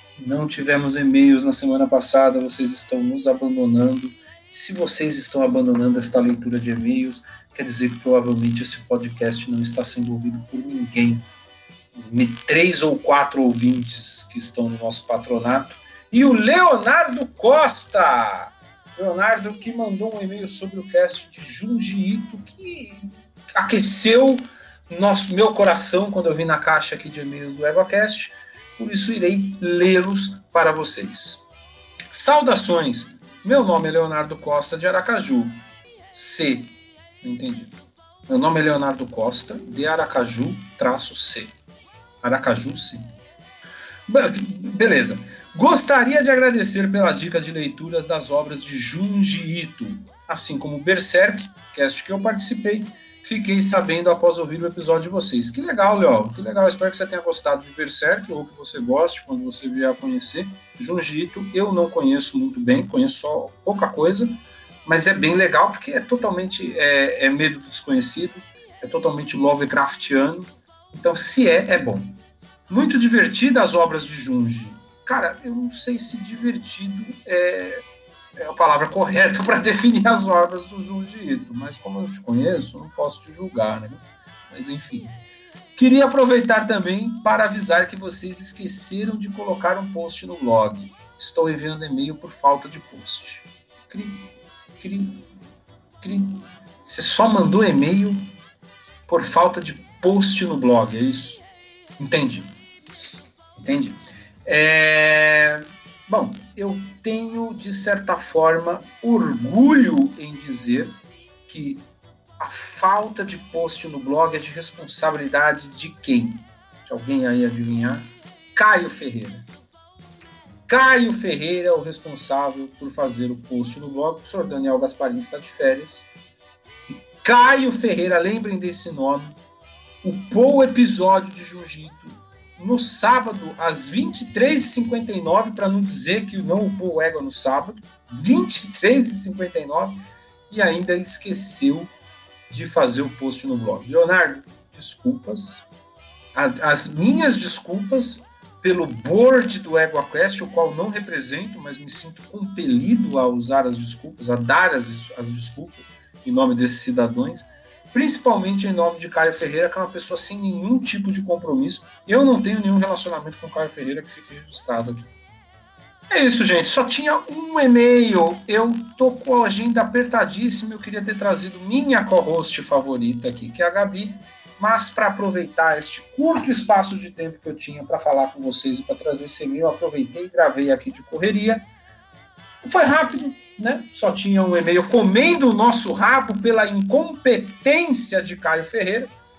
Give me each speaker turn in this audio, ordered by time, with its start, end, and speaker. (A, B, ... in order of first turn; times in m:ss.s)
0:00.2-0:11.2 A
0:12.0-0:31.4 A
0:32.1-0:35.6 A
0:36.1-0:37.7 A
0:38.3-0:41.5 A
0:42.2-0:43.1 A
0:44.1-1:12.2 A
1:12.7-1:17.8 A
1:18.4-1:25.1 A
1:25.8-1:34.3 A
1:34.8-1:35.2 A
1:36.0-1:38.2 A
1:39.1-1:41.4 A
1:42.0-1:42.5 A
1:43.6-1:51.8 A
1:52.4-1:59.4 A
2:00.7-2:06.0 A
2:06.9-2:09.4 A
2:10.0-2:21.9 A
2:22.5-2:25.6 A
2:26.3-2:45.1 A
2:46.1-3:01.7 A
3:02.6-3:09.1 A